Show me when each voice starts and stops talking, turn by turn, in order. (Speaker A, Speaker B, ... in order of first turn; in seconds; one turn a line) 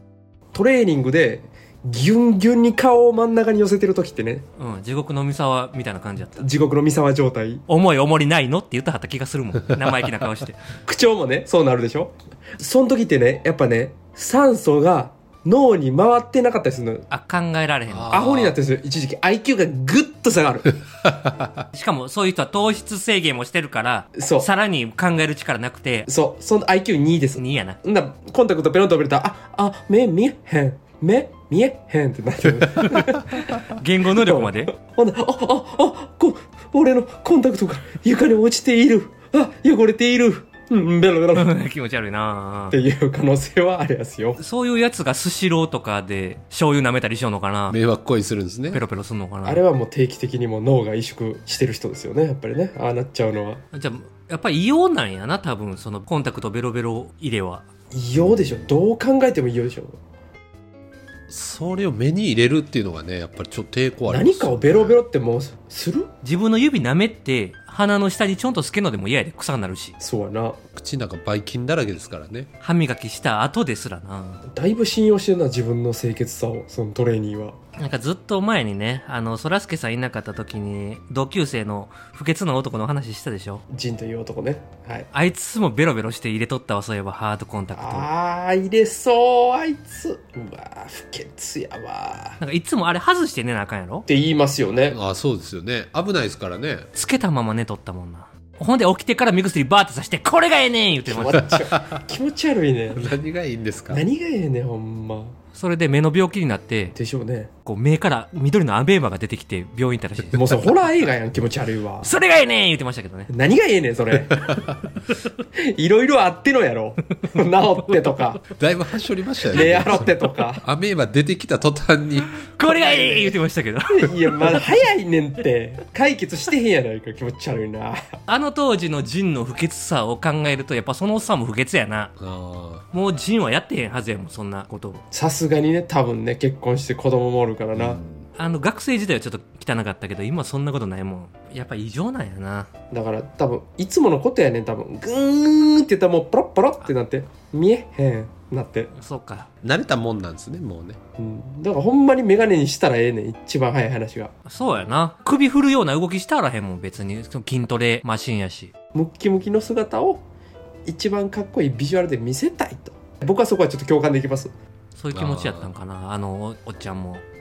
Speaker A: 0.5-4.4
Speaker B: 4.6-6.5
Speaker A: 6.4-7.6
Speaker B: 7.7-10.6
Speaker A: 10.8-17.1
Speaker B: 17.1-18.2
Speaker C: 17.9-18.6
Speaker A: 18.1-20.7
Speaker B: 21.7-26.1
Speaker A: 24.1-24.5
Speaker A: 26.1-41.5
Speaker B: 27.4-27.8
Speaker B: 33.6-34.7
Speaker B: 41.3-42.8
Speaker A: 42.7-44.4
Speaker B: 44.4-47.8
Speaker C: 47.7-48.8
Speaker B: 48.7-49.6
Speaker A: 49.4-53.6
Speaker B: 53.7-57.6
Speaker A: 57.9-60.0
Speaker C: 61.3-65.0
Speaker A: 64.1-66.1
Speaker B: 66.2-70.0
Speaker A: 70.0-70.6
Speaker C: 70.8-72.5
Speaker B: 72.6-74.4
Speaker A: 74.5-77.5
Speaker B: 77.8-83.6
Speaker A: 83.7-85.1
Speaker B: 85.1-88.1
Speaker A: 87.7-92.4
Speaker B: 92.4-94.1
Speaker A: 94.1-95.0
Speaker C: 94.9-96.9
Speaker B: 96.9-101.5
Speaker A: 101.1-103.2
Speaker C: 101.6-102.0
Speaker C: 102.9-104.0
Speaker A: 103.9-105.3
Speaker B: 105.5-106.9
Speaker A: 106.9-107.5
Speaker B: 107.6-110.5
Speaker A: 110.3-112.1
Speaker B: 112.0-113.3
Speaker A: 113.3-114.6
Speaker A: 115.6-118.5
Speaker C: 118.5-122.3
Speaker A: 119.4-120.6
Speaker B: 122.3-124.6
Speaker A: 123.9-128.0
Speaker B: 128.3-132.1
Speaker C: 132.2-132.8
Speaker B: 132.9-135.0
Speaker A: 135.1-138.0
Speaker C: 137.7-138.3
Speaker B: 138.3-142.7
Speaker A: 142.9-148.9
Speaker B: 148.9-149.5
Speaker C: 149.6-151.0
Speaker A: 151.2-154.3
Speaker B: 154.4-158.7
Speaker A: 158.9-160.2
Speaker A: 160.8-164.5
Speaker B: 164.9-167.2
Speaker C: 165.1-165.7